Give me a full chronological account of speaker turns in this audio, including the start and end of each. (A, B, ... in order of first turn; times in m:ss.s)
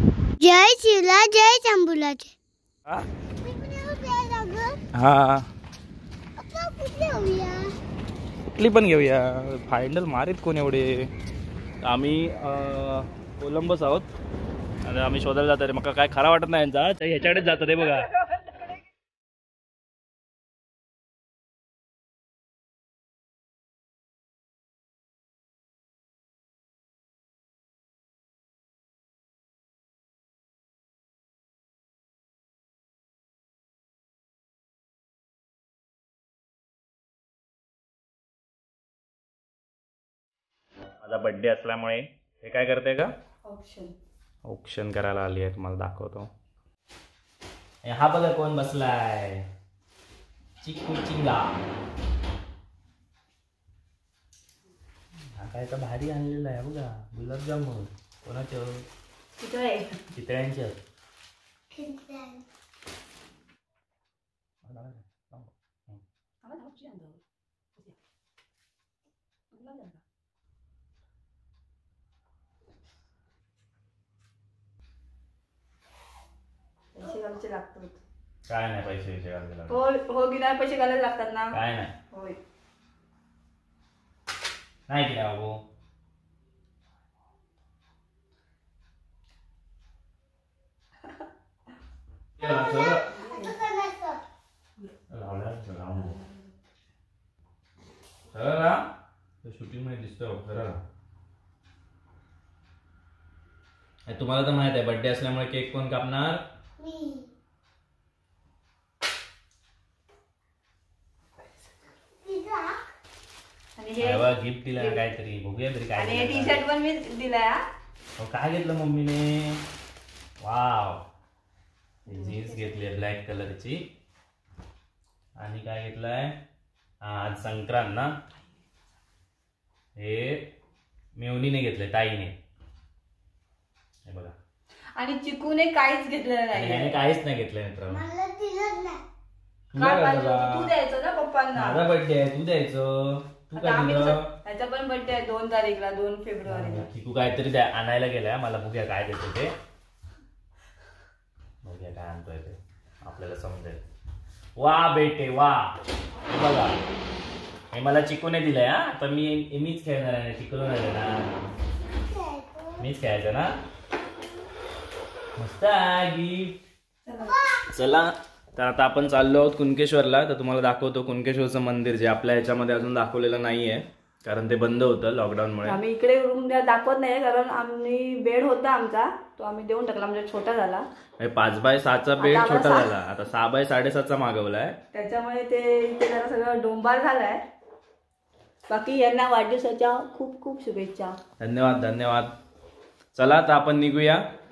0:00.4-0:02.3 A
0:03.4-0:04.8 A
0:04.9-0:05.5 B
0:06.4-0:07.7 A
0:08.6-0:11.1 B
0:11.8-0:14.1 B
0:14.8-0:18.1 B
0:41.0-0:43.1 B
0:43.4-0:43.9 C
0:44.4-0:46.3 B
0:47.8-0:49.5 B
0:50.6-0:51.5 B
0:55.3-0:58.8 B
0:59.4-1:00.0 C
1:00.1-1:00.8 B
1:01.7-1:02.4 A
1:04.6-1:06.0 B
1:06.4-1:07.2 C
1:09.5-1:10.0 C
1:16.9-1:18.0 C
1:18.5-1:19.8 B
1:19.7-1:21.5 C
1:21.5-1:21.9 B
1:22.1-1:22.4 C
1:24.9-1:25.6 B
1:32.4-1:33.1 B
1:32.4-1:34.2 A
1:33.2-1:33.5 C
1:35.1-1:36.2 B
1:38.3-1:38.9 B
1:39.4-1:40.8 B
1:44.1-1:46.4 B
1:46.8-1:47.3 A
1:52.2-1:52.8 A
1:53.8-1:55.0 C
1:54.0-1:56.6 B
1:56.0-1:57.6 C
1:58.2-1:59.6 B
2:00.4-2:01.0 B
2:02.0-2:03.9 B
2:02.1-2:02.7 C
2:05.4-2:06.4 B
2:07.0-2:08.1 B
2:10.0-2:10.5 B
2:11.2-2:12.4 B
2:14.0-2:14.3 B
2:15.0-2:16.9 C
2:16.5-2:18.0 B
2:17.9-2:19.0 A
2:19.7-2:20.7 B
2:19.8-2:21.8 C
2:21.5-2:24.3 B
2:23.5-2:26.8 C
2:26.5-2:29.5 B
2:31.6-2:33.8 B
2:34.6-2:36.8 B
2:37.7-2:41.4 B
2:41.9-2:42.8 A
2:42.8-2:43.5 B
2:45.4-2:46.6 B
2:47.0-2:47.4 C
2:47.2-2:47.6 A
2:47.7-2:55.8 B
2:55.6-3:00.8 C
3:01.2-3:04.8 B
3:02.2-3:02.9 C
3:04.9-3:07.4 C
3:08.7-3:11.2 C
3:11.4-3:12.3 B
3:13.1-3:14.2 B